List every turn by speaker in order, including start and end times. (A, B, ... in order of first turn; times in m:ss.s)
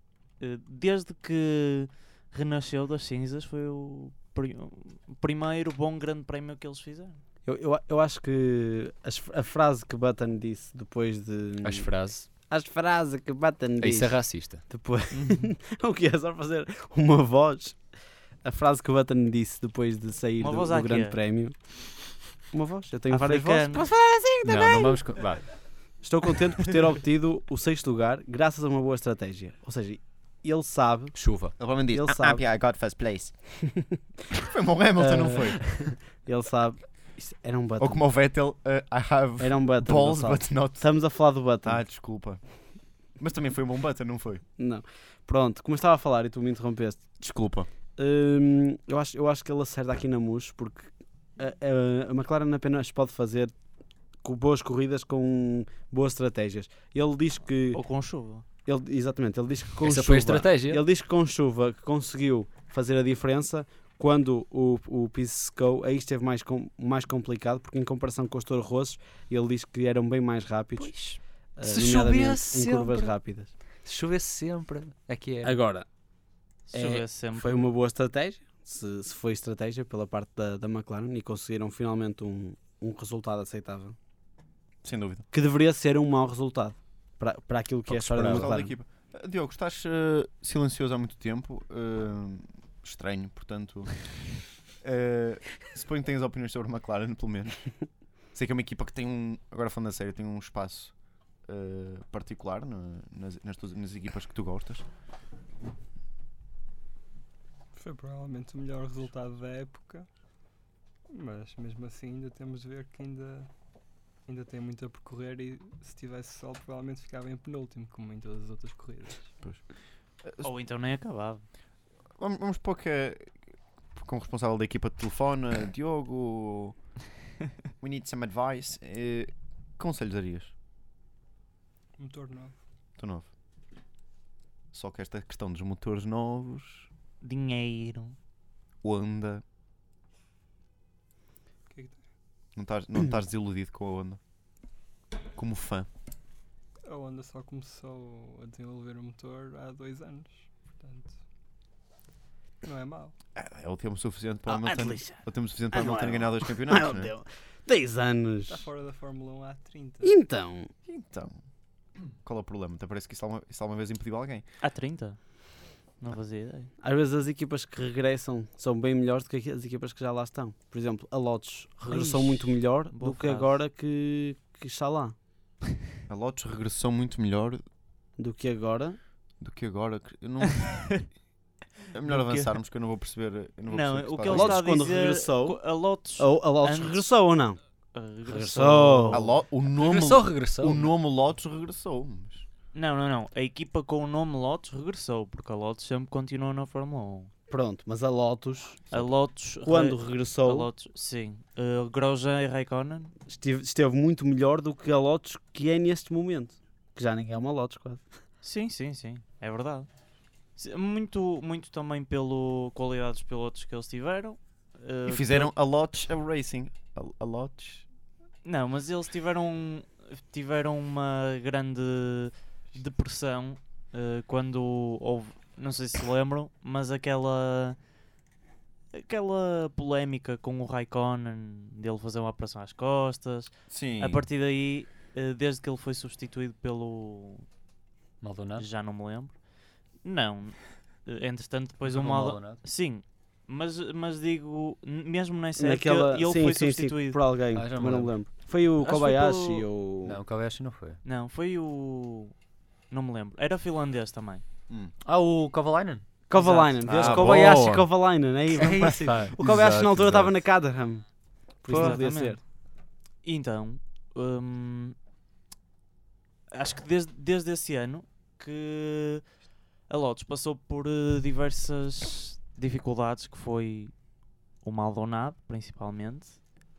0:00.4-0:07.2 A
0:07.4-0:17.8 B
0:11.6-0:12.3 C
0:13.8-0:14.6 C
0:15.1-0:15.5 A
0:18.4-0:25.2 B
0:20.4-0:21.2 A
0:23.1-0:23.8 A
0:24.4-0:25.6 C
0:26.0-0:31.2 B
0:31.1-0:31.6 C
0:31.6-0:33.3 D
0:31.9-0:32.4 B
0:33.6-0:34.0 B
0:34.3-0:35.7 D
0:35.0-0:38.0 B
0:37.8-0:40.9 D
0:39.4-0:41.8 B
0:41.6-0:42.4 D
0:43.2-0:44.4 D
0:44.6-0:47.1 B
0:47.2-0:47.7 D
0:48.0-0:53.5 B
0:54.2-0:57.8 B
0:57.7-0:58.4 A
0:58.6-1:10.9 B
0:59.8-1:00.8 C
1:10.8-1:13.1 C
1:11.6-1:13.5 B
1:13.8-1:15.6 C
1:15.4-1:15.9 B
1:16.7-1:17.7 A
1:16.7-1:24.0 B
1:24.8-1:25.2 D
1:25.3-1:28.8 B
1:27.9-1:28.5 C
1:28.2-1:34.0 D
1:34.8-1:37.7 D
1:38.3-1:40.9 D
1:41.4-1:44.8 D
1:47.7-1:50.1 E
1:51.1-1:53.5 E
1:54.3-1:59.4 E
2:00.2-2:00.5 D
2:00.4-2:01.4 A
2:02.2-2:03.4 D
2:03.9-2:06.8 D
2:07.8-2:10.5 D
2:12.0-2:12.6 E
2:13.0-2:13.3 D
2:14.7-2:16.9 D
2:17.2-2:18.2 A
2:18.8-2:19.4 D
2:21.7-2:22.0 E
2:22.6-2:24.2 D
2:25.4-2:25.9 D
2:26.9-2:31.2 E
2:32.6-2:33.1 E
2:33.4-2:37.1 D
2:34.5-2:38.6 B
2:38.5-2:40.2 E
2:40.0-2:40.7 B
2:40.9-2:41.4 D
2:42.2-2:44.4 D
2:44.6-2:45.4 A
2:46.0-2:46.7 A
2:46.8-2:55.2 B
2:51.9-2:53.5 A
2:56.1-2:57.6 D
2:58.2-2:59.0 B
2:59.4-3:01.0 D
3:00.5-3:01.1 A
3:01.9-3:04.6 D
3:02.1-3:02.6 A
3:03.7-3:07.1 A
3:04.2-3:05.6 B
3:06.2-3:07.6 B
3:07.9-3:09.2 A
3:08.2-3:09.3 B
3:09.1-3:12.4 D
3:09.8-3:10.9 C
3:12.7-3:17.3 A
3:17.5-3:18.9 B
3:18.9-3:23.1 A
3:19.6-3:20.7 B
3:23.3-3:28.1 B
3:28.4-3:29.9 A
3:30.6-3:35.5 A
3:35.1-3:37.9 D
3:38.4-3:47.8 A
3:48.9-3:57.4 A
3:53.7-3:54.2 D
3:58.2-3:58.6 C
3:58.6-3:59.4 A
4:00.0-4:07.2 A
4:01.9-4:02.6 C
4:05.6-4:10.2 B
4:07.5-4:08.2 C
4:08.8-4:09.6 A
4:10.0-4:11.0 C
4:11.0-4:12.4 A
4:12.9-4:14.4 A
4:15.0-4:16.1 C
4:16.3-4:21.1 B
4:16.3-4:17.2 A
4:16.8-4:17.9 D
4:18.6-4:20.0 C
4:18.8-4:20.3 D
4:21.6-4:22.4 B
4:21.7-4:22.5 A
4:21.7-4:22.0 C
4:23.2-4:25.0 A
4:26.5-4:29.2 A
4:29.9-4:33.9 A
4:34.6-4:36.4 A